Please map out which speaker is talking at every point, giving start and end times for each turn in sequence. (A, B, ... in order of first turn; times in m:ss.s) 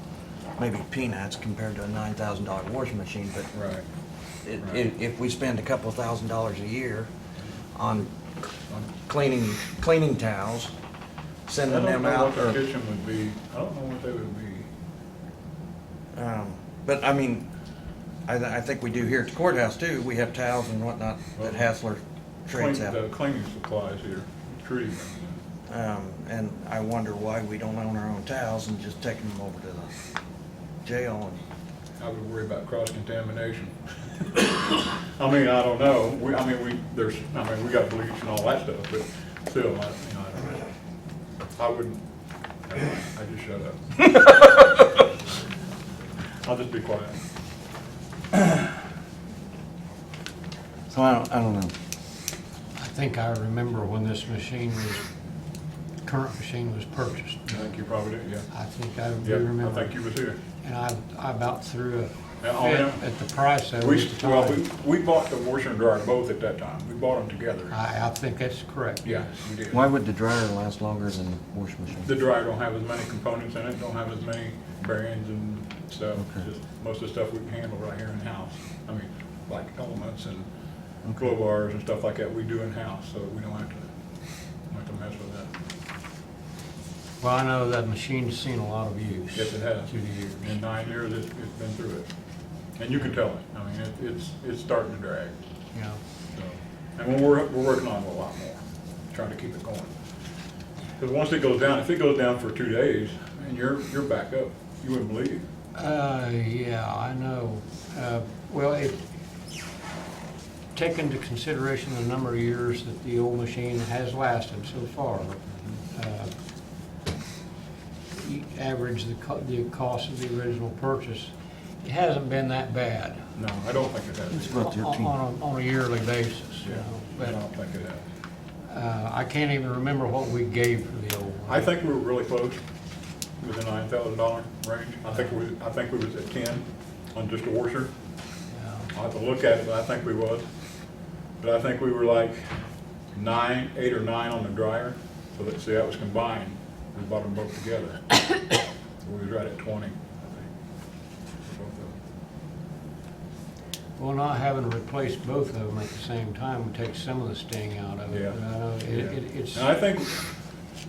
0:00.6-0:03.5 A
0:03.6-0:03.8 B
0:04.4-0:07.1 A
0:07.8-0:08.1 A
0:09.0-0:10.7 A
0:11.5-0:12.6 A
0:11.6-0:14.7 B
0:16.2-0:17.5 A
0:18.3-0:23.0 A
0:21.4-0:21.7 B
0:22.5-0:25.4 B
0:25.7-0:29.9 A
0:30.8-0:31.4 A
0:32.0-0:33.8 B
0:34.4-0:40.6 B
0:41.6-0:42.0 B
0:42.7-0:43.9 B
0:46.4-0:47.2 B
0:50.9-0:51.7 A
0:52.8-0:55.0 C
0:56.0-0:57.6 C
0:57.5-0:58.5 B
0:58.5-1:00.0 C
0:59.2-1:00.4 B
1:00.6-1:04.6 C
1:02.4-1:03.0 B
1:03.8-1:07.8 B
1:07.7-1:09.1 C
1:09.0-1:09.9 B
1:09.7-1:12.1 A
1:12.0-1:20.5 B
1:16.2-1:16.5 A
1:21.0-1:21.3 A
1:21.2-1:23.9 B
1:24.7-1:25.5 B
1:27.2-1:30.6 C
1:29.4-1:32.1 B
1:32.8-1:35.4 B
1:35.7-1:36.0 C
1:36.3-1:39.9 B
1:41.0-1:45.4 B
1:45.8-1:49.0 C
1:50.7-1:55.4 C
1:55.9-1:56.3 C
1:58.2-2:03.2 C
2:03.4-2:04.6 B
2:04.3-2:05.2 A
2:04.5-2:07.4 C
2:06.6-2:08.0 B
2:08.7-2:11.7 C
2:11.5-2:12.6 B
2:13.4-2:17.9 B
2:18.5-2:18.9 C
2:18.9-2:20.5 B
2:21.4-2:22.6 B
2:23.2-2:28.1 B
2:29.0-2:30.5 B
2:31.5-2:32.0 B
2:34.0-2:39.7 C
2:38.1-2:40.2 B